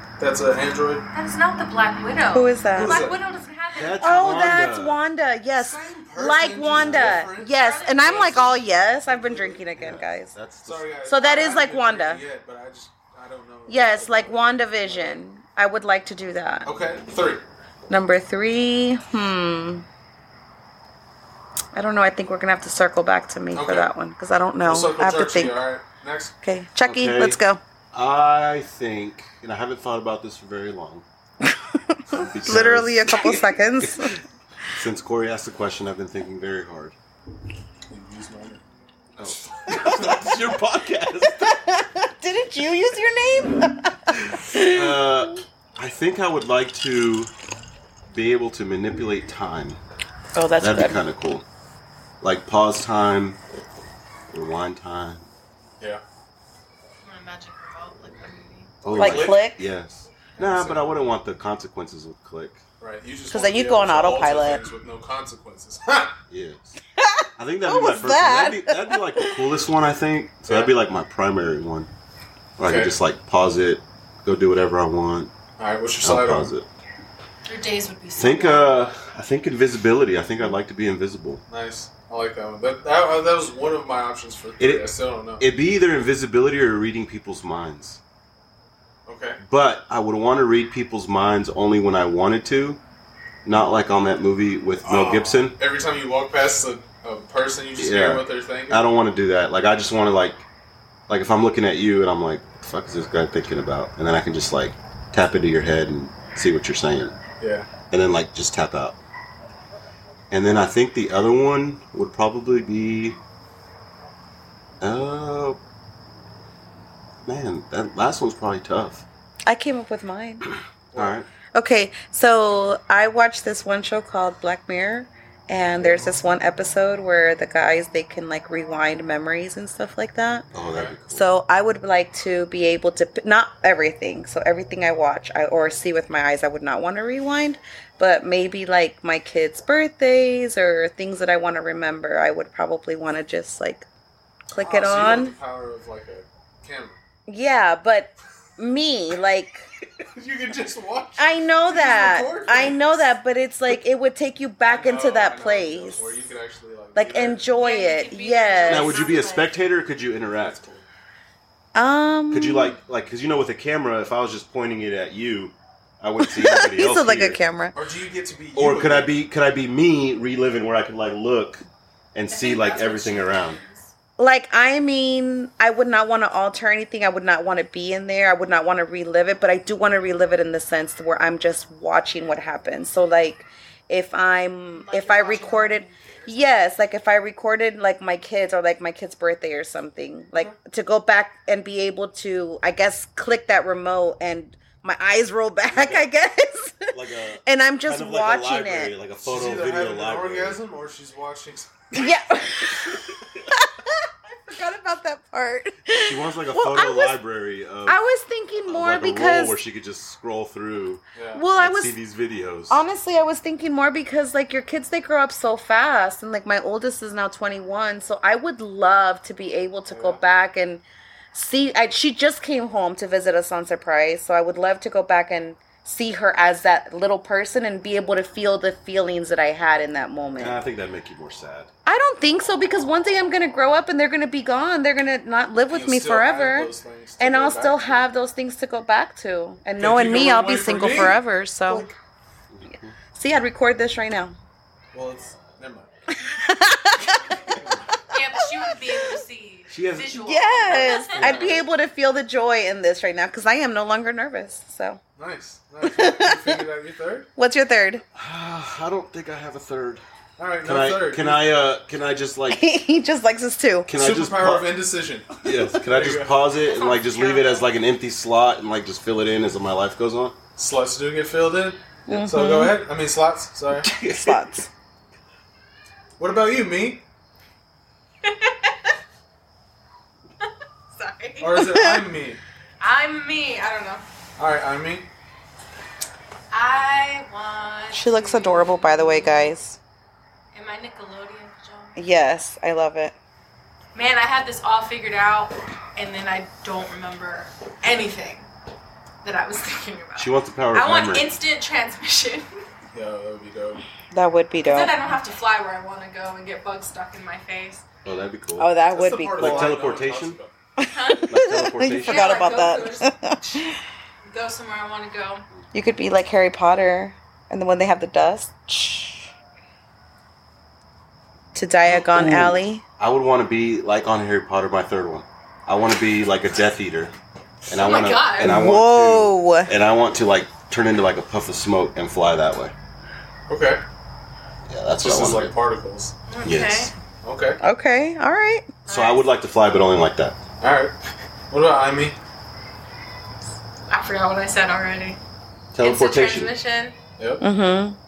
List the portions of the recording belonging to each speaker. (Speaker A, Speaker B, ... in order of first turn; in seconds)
Speaker A: 0.2-1.1, 2.8-3.2, 5.5-9.6, 10.6-15.2, 16.6-17.4, 23.5-23.9, 24.6-26.4, 37.9-38.6, 39.7-40.1, 59.0-59.5, 60.4-61.0, 62.8-66.2, 70.5-70.7, 72.6-73.0, 75.6-76.5, 81.5-85.5, 89.1-89.4, 94.8-98.9, 107.4-107.7, 120.9-121.2, 125.8-126.1, 130.6-131.0, 144.6-147.0, 150.1-152.8, 154.7-157.4, 160.4-160.8, 167.8-169.1, 199.2-201.9, 211.2-211.4, 219.9-220.2, 235.7-238.1, 239.8-241.9, 244.9-245.9, 247.5-247.9, 251.2-251.6, 255.2-257.3, 260.4-261.5, 263.9-266.4, 270.6-273.9, 276.2-277.0, 281.4-282.4, 284.4-285.1, 302.9-303.8, 308.9-310.5, 333.5-333.8, 335.0-336.1, 337.2-337.6, 340.6-341.0, 341.5-342.2, 347.2-347.4
Speaker B: 1.1-4.5, 7.5-8.5, 57.0-58.8, 77.5-78.8, 157.6-159.5, 172.3-173.9, 184.7-186.6, 248.1-251.3, 266.6-267.6, 278.2-278.7, 281.0-281.6, 282.8-284.0, 286.5-289.5, 290.5-292.0, 293.9-298.5, 299.2-302.6, 304.6-307.9, 310.9-311.3, 312.0-313.7, 314.2-315.4, 327.7-328.6, 336.3-336.9, 338.9-339.2, 343.9-345.2, 345.8-347.0
Speaker C: 2.3-3.0, 4.0-10.3, 11.1-12.2, 13.7-16.7, 17.9-19.9, 21.7-25.6, 26.4-27.6, 31.5-34.2, 41.3-45.3, 50.4-51.0, 58.9-59.6, 63.3-64.6, 67.0-69.4, 119.5-120.5, 121.5-130.5, 131.1-143.9, 144.5-145.3, 147.3-149.7, 151.2-156.2, 157.0-159.1, 161.7-162.8, 166.2-167.7, 174.2-196.9, 197.5-198.9, 201.9-203.1, 204.5-207.2, 207.9-209.6, 211.3-211.9, 212.7-230.6, 231.9-241.9, 243.1-244.4, 246.2-247.5, 250.2-255.0, 255.8-256.6, 257.4-258.0, 262.5-263.9, 272.1-272.8, 274.1-274.7, 281.6-282.0, 287.9-289.8, 292.0-293.1, 304.1-304.9, 308.6-309.7, 310.8-313.7, 315.7-319.3, 321.6-322.8, 328.4-329.7, 337.6-338.7, 347.4-348.0
Speaker D: 3.7-5.0, 6.7-7.2, 9.8-10.9, 26.8-27.4, 27.9-31.1, 32.1-34.2, 34.8-37.0, 39.2-41.6, 44.6-47.3, 48.1-49.8, 50.6-51.5, 52.2-53.4, 54.3-55.3, 58.8-62.6, 66.3-66.8, 67.4-71.9, 72.6-75.3, 76.0-76.7, 78.2-81.4, 84.6-88.0, 89.4-92.8, 93.5-95.6, 97.8-100.5, 101.1-107.2, 107.9-109.0, 110.3-113.2, 114.8-115.6, 117.2-119.0, 121.0-121.3, 130.5-131.3, 158.6-160.6, 162.3-167.4, 168.6-173.6, 195.7-196.1, 196.9-200.6, 206.0-208.0, 208.7-211.0, 211.6-212.8, 230.4-231.7, 242.5-243.0, 249.7-251.6, 258.1-260.0, 260.6-262.6, 263.9-264.7, 265.4-270.4, 273.8-274.4, 300.2-301.3, 308.1-308.7, 309.4-310.4, 311.3-312.4, 322.1-327.1, 327.7-332.7, 334.7-335.5, 336.4-336.9, 338.9-340.4, 345.7-346.5